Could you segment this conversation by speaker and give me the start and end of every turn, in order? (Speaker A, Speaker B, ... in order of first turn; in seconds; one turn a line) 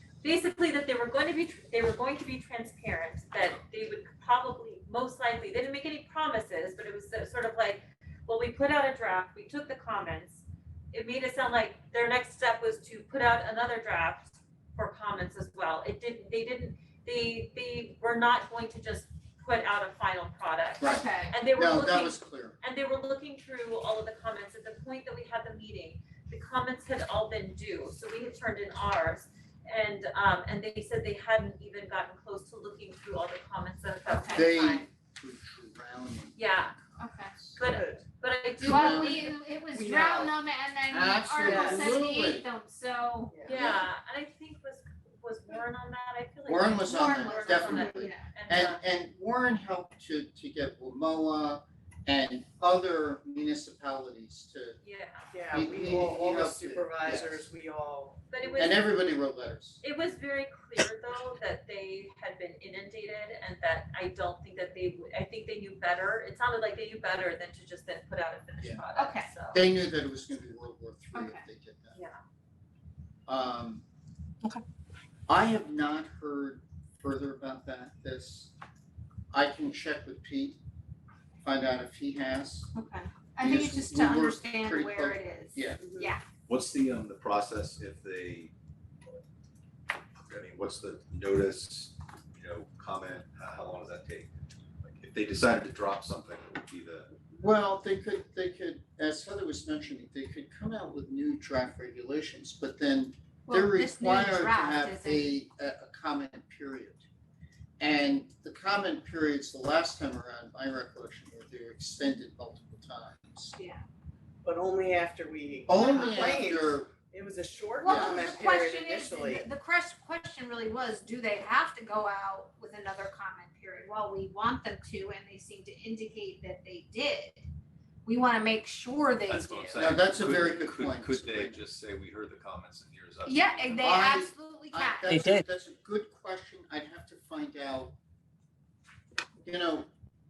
Speaker A: 0.2-34.8
Speaker B: 20.8-22.6
Speaker C: 20.8-21.3
Speaker C: 34.1-34.8
Speaker B: 34.3-37.6
Speaker A: 36.4-36.8
Speaker C: 37.0-37.3
Speaker A: 37.6-39.3
Speaker D: 37.6-38.0
Speaker B: 38.6-39.3
Speaker C: 38.6-43.4
Speaker D: 39.7-40.3
Speaker B: 40.9-42.5
Speaker D: 41.4-42.0
Speaker D: 43.3-43.6
Speaker A: 43.4-48.8
Speaker B: 43.5-43.9
Speaker B: 46.5-54.8
Speaker C: 46.9-48.2
Speaker A: 54.8-55.3
Speaker D: 55.3-58.2
Speaker B: 55.5-57.5
Speaker A: 58.3-58.9
Speaker B: 58.6-59.8
Speaker A: 59.8-69.6
Speaker C: 69.0-69.3
Speaker B: 69.5-72.0
Speaker C: 71.1-71.4
Speaker B: 73.3-73.8
Speaker B: 75.3-78.5
Speaker B: 79.3-80.6
Speaker B: 81.4-82.7
Speaker C: 82.7-86.2
Speaker B: 83.4-85.9
Speaker D: 85.8-86.1
Speaker E: 86.5-88.5
Speaker E: 90.2-94.3
Speaker E: 94.8-97.1
Speaker B: 97.3-107.0
Speaker C: 103.5-105.3
Speaker B: 107.8-113.5
Speaker C: 113.6-113.8
Speaker D: 114.4-119.5
Speaker B: 115.7-116.9
Speaker C: 115.8-116.4
Speaker C: 117.8-127.5
Speaker B: 117.8-118.4
Speaker C: 128.1-129.9
Speaker E: 129.3-133.8
Speaker B: 129.8-131.6
Speaker C: 133.3-135.4
Speaker B: 133.8-138.0
Speaker B: 139.4-139.9